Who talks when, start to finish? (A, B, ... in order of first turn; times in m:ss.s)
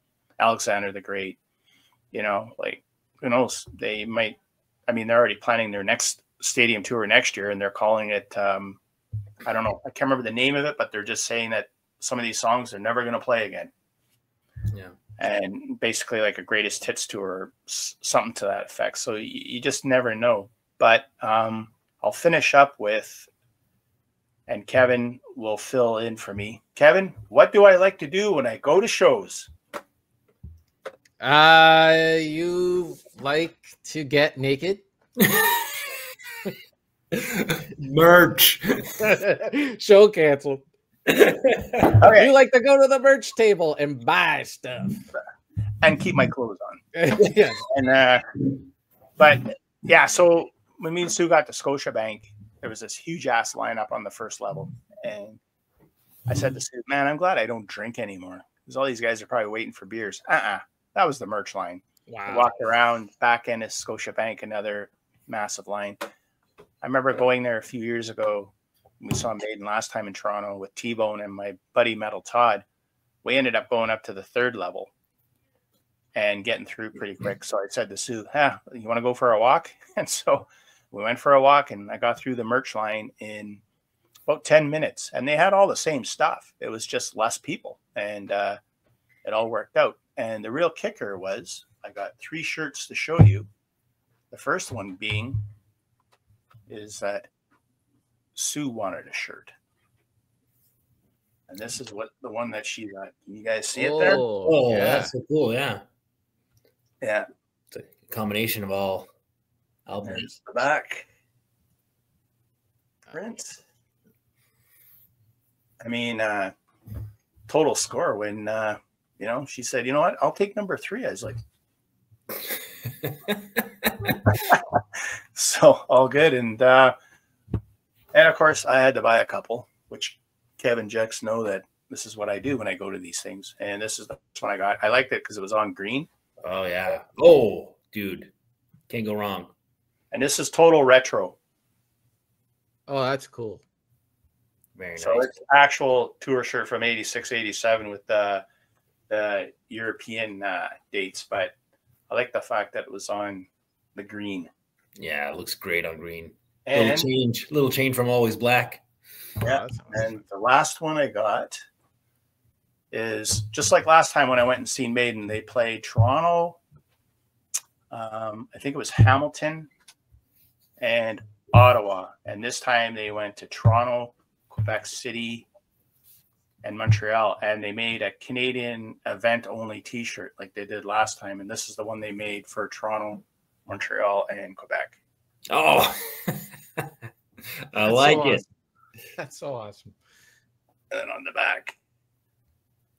0:00.4-0:01.4 A
0:02.1-0:08.8 A
0:09.4-0:13.7 A
0:15.2-0:23.3 A
0:24.5-0:29.5 A
0:31.2-0:34.8 B
0:35.2-0:36.0 C
0:37.1-0:39.1 C
0:39.0-0:40.6 B
0:41.1-0:42.0 C
0:42.0-0:42.3 A
0:42.0-0:45.0 B
0:45.8-0:46.8 A
0:46.9-0:47.6 B
0:47.7-0:48.3 A
0:49.2-0:55.4 A
0:56.3-1:06.0 A
1:02.1-1:02.6 B
1:06.8-1:12.6 A
1:13.2-1:14.9 A
1:16.1-1:23.6 A
1:24.3-1:28.6 A
1:29.2-1:33.5 A
1:34.3-1:35.4 A
1:36.7-1:37.3 A
1:38.3-1:39.5 A
1:41.5-1:44.2 A
1:43.7-1:45.1 B
1:44.4-1:45.8 C
1:47.0-1:47.2 A
1:47.7-1:49.1 C
1:49.8-1:50.4 C
1:50.0-1:51.0 A
1:53.1-1:53.6 A
1:55.8-1:56.5 A
1:57.5-2:01.4 A
2:03.0-2:04.1 C
2:04.3-2:04.8 A
2:05.3-2:06.9 A
2:08.1-2:16.1 A
2:16.4-2:18.3 C
2:18.9-2:19.5 C
2:20.1-2:21.4 A
2:22.9-2:23.6 B
2:24.8-2:25.3 C
2:25.0-2:28.4 A
2:29.1-2:31.5 A
2:32.1-2:34.5 A
2:35.0-2:38.8 C
2:36.6-2:37.1 A
2:39.4-2:41.6 A
2:39.4-2:40.2 B
2:42.9-2:46.6 A
2:47.9-2:49.7 A
2:50.8-2:55.5 A
2:56.6-3:05.0 A
3:05.5-3:06.9 C
3:07.7-3:08.4 C
3:07.9-3:08.4 B
3:09.2-3:09.9 B
3:10.9-3:11.7 A